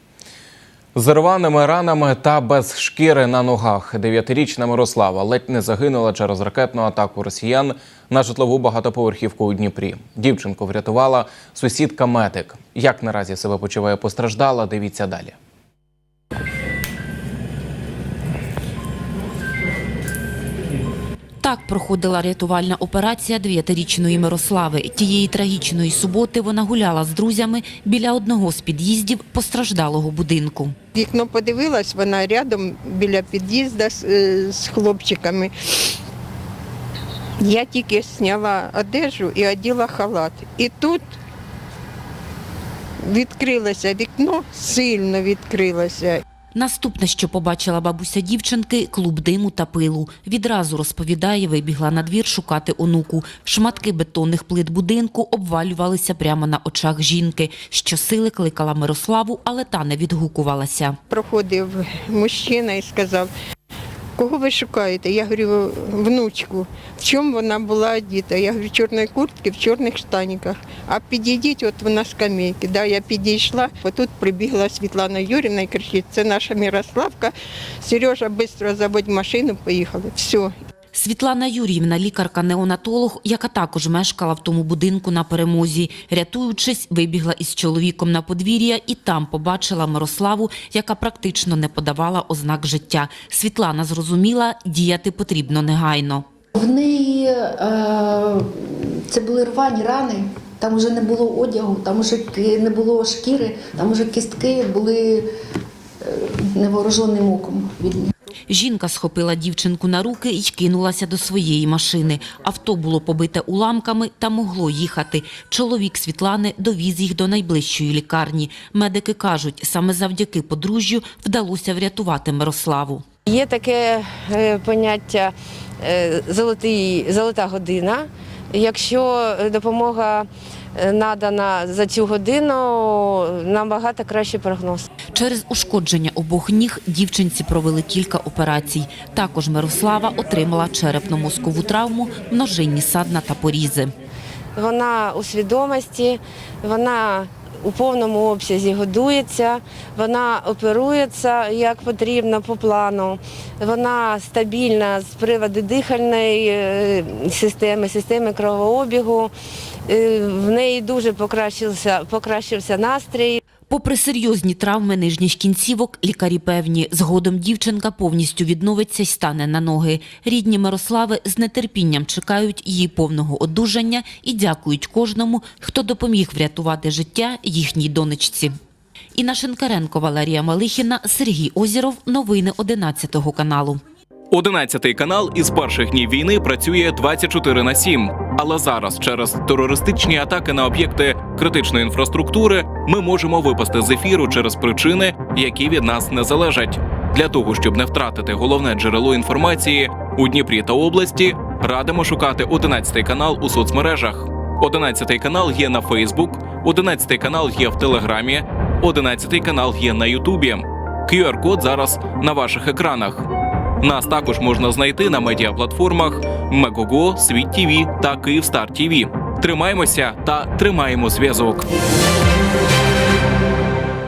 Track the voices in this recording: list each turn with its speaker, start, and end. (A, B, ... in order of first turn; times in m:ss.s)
0:00.9-0:15.3 A
0:21.4-0:30.7 B
0:30.9-0:35.5 C
0:37.4-0:41.0 C
0:43.0-0:46.2 C
0:46.5-1:01.0 B
1:01.1-1:03.3 C
1:04.2-1:20.5 C
1:20.9-1:36.2 B
1:36.6-1:45.3 D
1:46.0-1:48.1 D
1:48.5-2:03.0 B
2:03.3-2:14.9 E
2:15.1-2:23.9 B
2:24.6-2:39.3 E
2:39.9-2:43.4 E
2:43.7-2:58.5 B
2:59.1-3:03.8 B
3:04.3-3:33.3 A
3:33.8-3:41.7 A